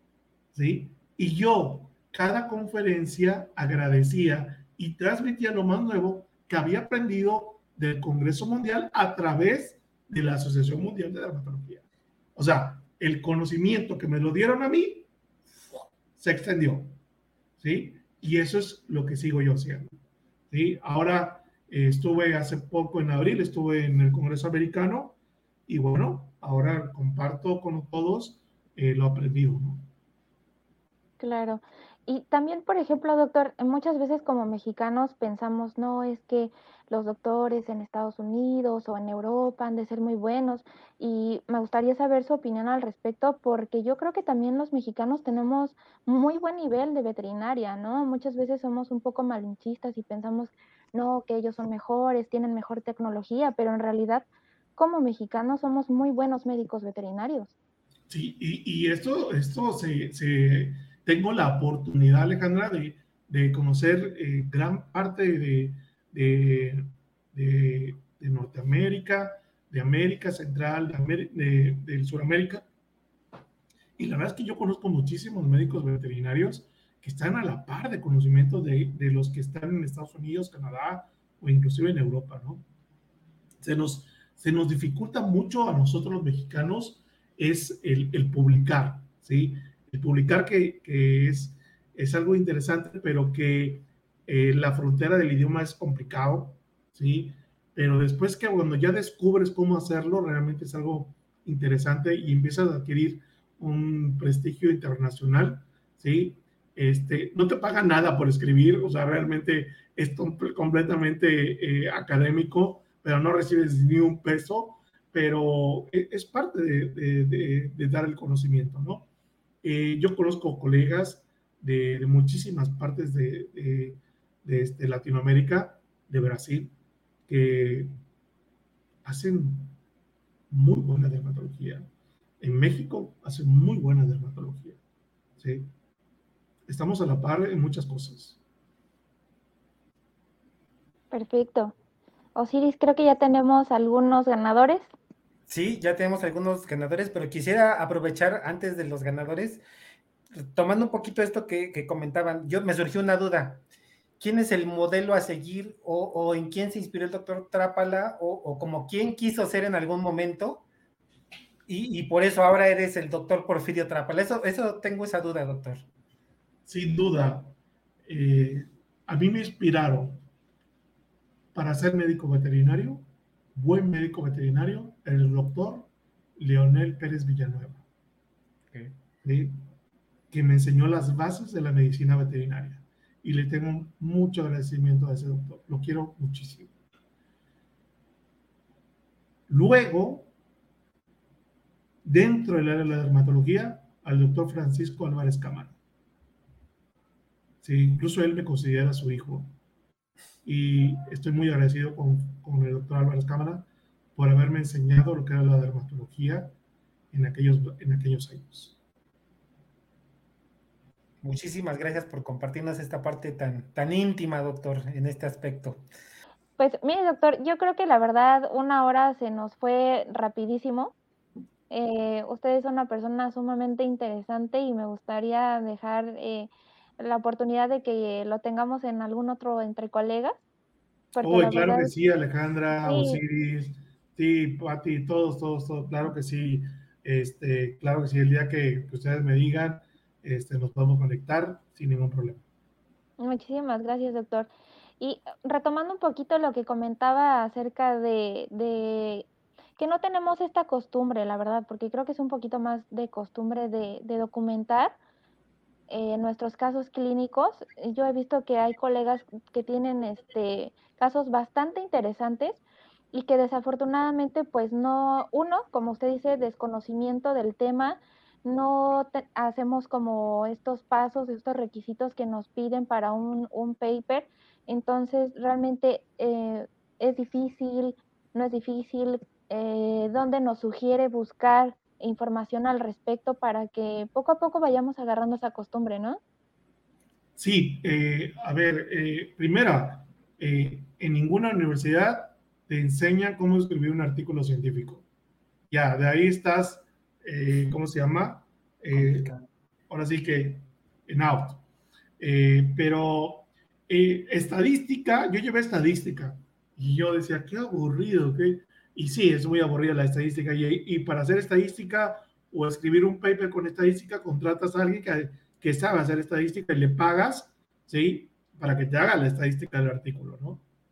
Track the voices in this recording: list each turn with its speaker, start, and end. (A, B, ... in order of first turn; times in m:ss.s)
0:00.5-0:11.8 A
0:12.4-0:15.1 A
0:16.2-0:17.0 A
0:17.6-0:20.0 A
0:20.5-0:29.9 A
0:31.2-0:57.5 B
0:58.1-1:12.7 A
1:14.0-1:22.6 A
1:23.6-1:59.1 A
1:59.6-2:06.7 A
2:07.3-2:07.9 A
2:09.0-2:09.8 A
2:10.5-2:11.9 A
2:12.4-2:14.8 A
2:15.4-2:15.7 A
2:16.7-2:18.4 A
2:21.1-2:21.8 B
2:22.4-2:24.9 B
2:25.5-2:29.6 C
2:30.4-2:33.6 C
2:34.2-2:40.6 C
2:41.7-2:45.8 C
2:46.7-2:47.5 A
2:48.1-2:50.2 A
2:51.5-2:57.8 A
2:59.2-2:59.6 A
3:00.3-3:06.7 A
3:09.5-3:10.3 A
3:12.0-3:15.8 A
3:17.6-3:19.5 A
3:20.4-3:26.5 A
3:27.1-3:28.8 A
3:31.2-3:35.8 C
3:36.6-3:40.9 B
3:41.7-3:50.4 B
3:51.1-3:51.9 B
3:51.2-4:02.4 A
3:52.8-3:53.2 B
4:03.2-4:09.3 B
4:09.8-4:15.0 B
4:15.9-4:22.6 B
4:23.1-4:46.2 B
4:47.4-4:55.0 A
4:55.7-4:59.3 A
4:58.9-4:59.4 C
4:59.9-5:01.6 A
5:02.2-5:20.6 A